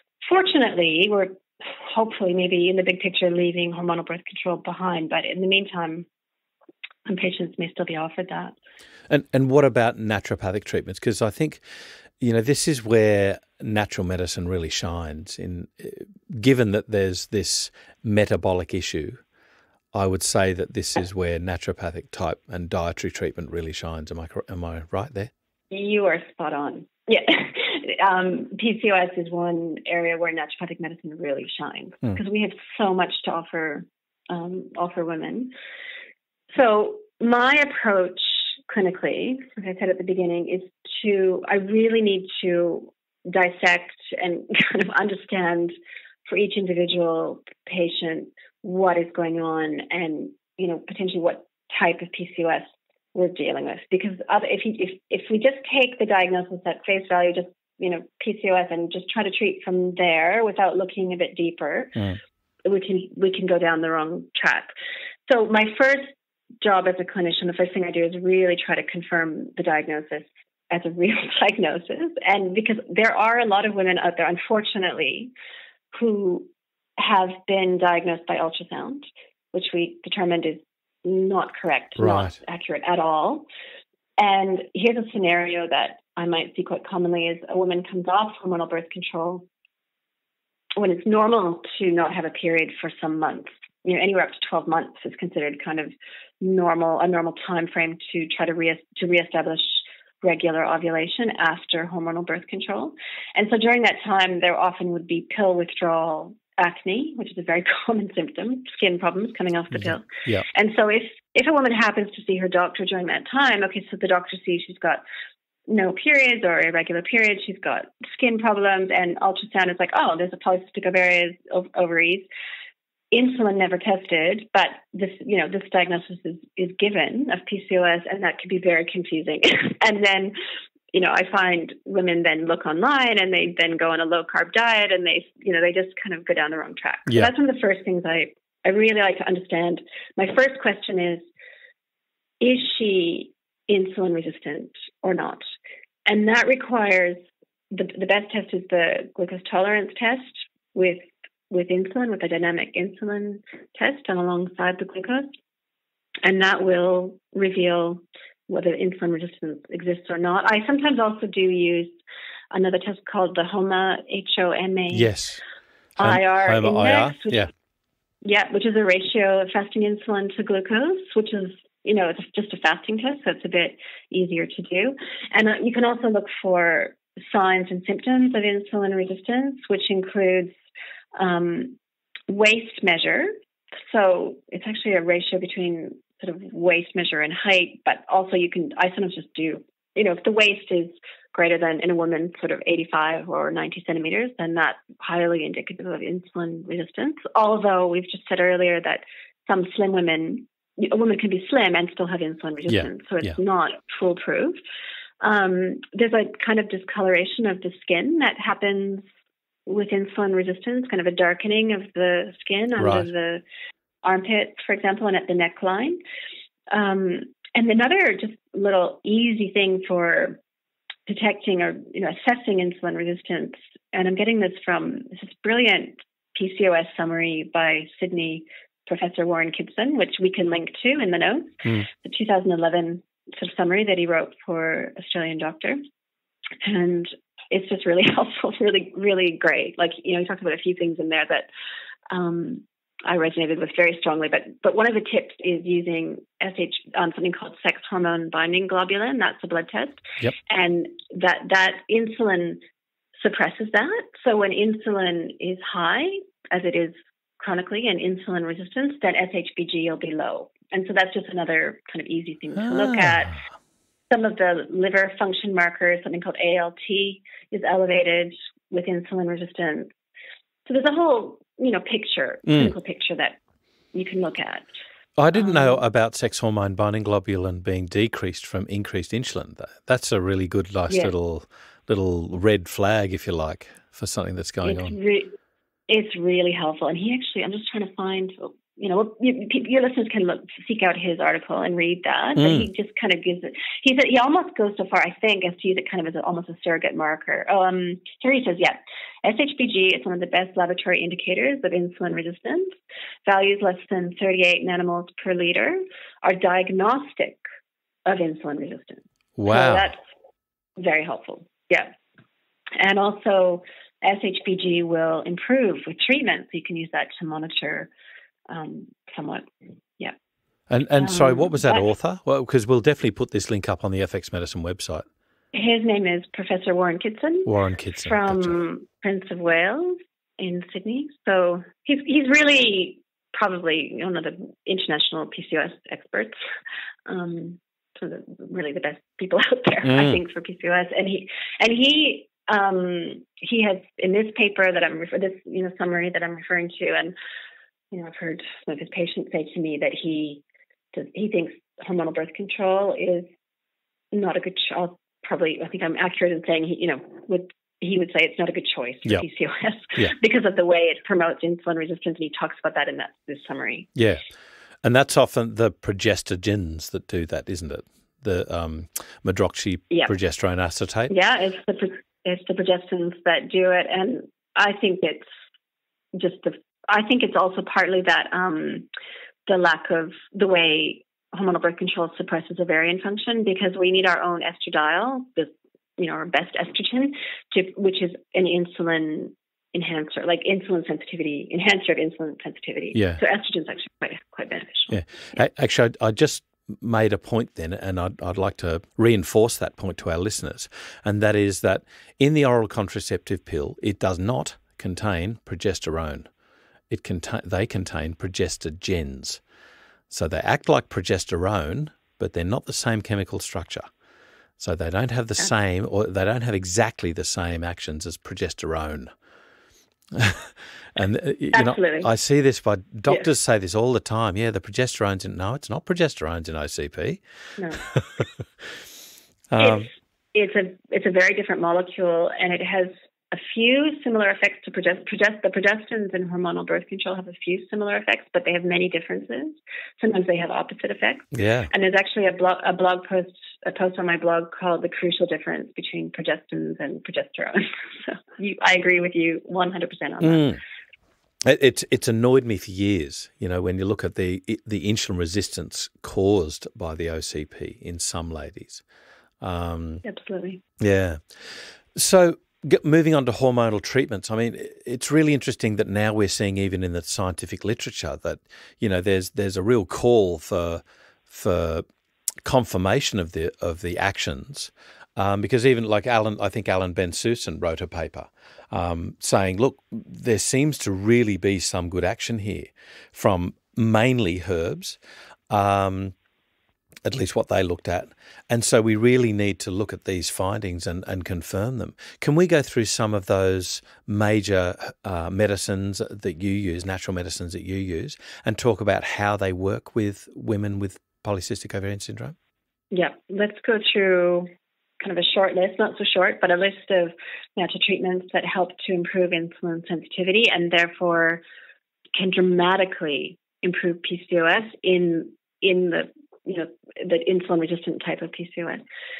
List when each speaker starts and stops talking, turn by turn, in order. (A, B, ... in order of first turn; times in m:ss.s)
0:00.2-0:06.1 A
0:07.1-0:08.6 A
0:09.1-0:11.6 B
0:12.2-0:19.2 B
0:19.9-0:25.3 B
0:25.7-0:35.5 A
0:36.5-0:45.8 A
0:46.3-1:02.0 A
1:02.6-1:04.7 A
1:05.3-1:15.3 A
1:15.9-1:23.4 A
1:22.0-1:22.4 B
1:24.2-1:29.5 A
1:30.8-1:55.0 A
1:49.7-1:50.5 B
1:55.7-2:02.3 A
2:03.1-2:10.3 A
2:10.9-2:21.2 A
2:22.4-2:25.4 A
2:26.1-2:27.2 A
2:27.7-2:35.3 A
2:36.2-2:42.0 A
2:42.5-2:45.1 A
2:44.9-2:45.4 B
2:46.0-2:47.5 A
2:46.0-2:47.5 B
2:48.2-3:00.5 A
3:01.2-3:01.8 A
3:02.3-3:03.3 A
3:03.8-3:24.6 A
3:25.2-3:29.0 A
3:29.7-3:33.4 A
3:32.8-3:33.1 B
3:34.0-3:36.0 A
3:36.7-3:40.4 A
3:41.1-3:55.8 A
3:56.6-4:01.5 A
4:02.1-4:12.6 A
4:13.2-4:23.4 A
4:22.6-4:23.4 B
4:24.1-4:29.9 A
4:30.7-4:33.4 A
4:32.5-4:32.7 B
4:33.9-4:34.7 A
4:35.2-4:45.0 B
4:35.4-4:35.8 A
4:44.6-4:45.4 A
4:45.9-5:02.8 A
4:52.4-4:52.7 B
5:03.3-5:07.4 A
5:08.1-5:10.0 A
5:09.4-5:09.9 B
5:10.8-5:11.9 A
5:12.8-5:17.9 A
5:18.5-5:19.4 A
5:20.7-5:25.0 B
5:21.0-5:21.8 A
5:25.5-5:27.5 A
5:27.5-5:28.6 B
5:28.0-5:36.4 A
5:37.1-5:47.1 A
5:39.8-5:40.2 B
5:47.9-5:53.3 A
5:54.1-6:03.9 A
6:04.0-6:04.2 B
6:04.8-6:11.1 B
6:11.1-6:15.3 A
6:16.1-6:18.9 A
6:19.5-6:35.4 A
6:33.0-6:33.2 B
6:34.9-6:46.3 B
6:46.9-6:49.4 B
6:50.1-6:53.9 B
6:54.6-6:59.1 B
7:00.1-7:07.2 B
7:01.5-7:02.1 A
7:07.8-7:08.3 B
7:09.5-7:09.9 B
7:09.6-7:30.5 A
7:21.3-7:21.7 B
7:30.2-7:30.6 B
7:31.5-7:38.8 B
7:39.4-7:40.0 B
7:40.0-7:40.6 A
7:40.8-7:51.8 B
7:52.4-8:05.0 B
8:05.5-8:06.2 B
8:07.1-8:22.4 B
8:22.9-8:24.5 A
8:25.0-8:31.4 A
8:32.2-8:38.8 A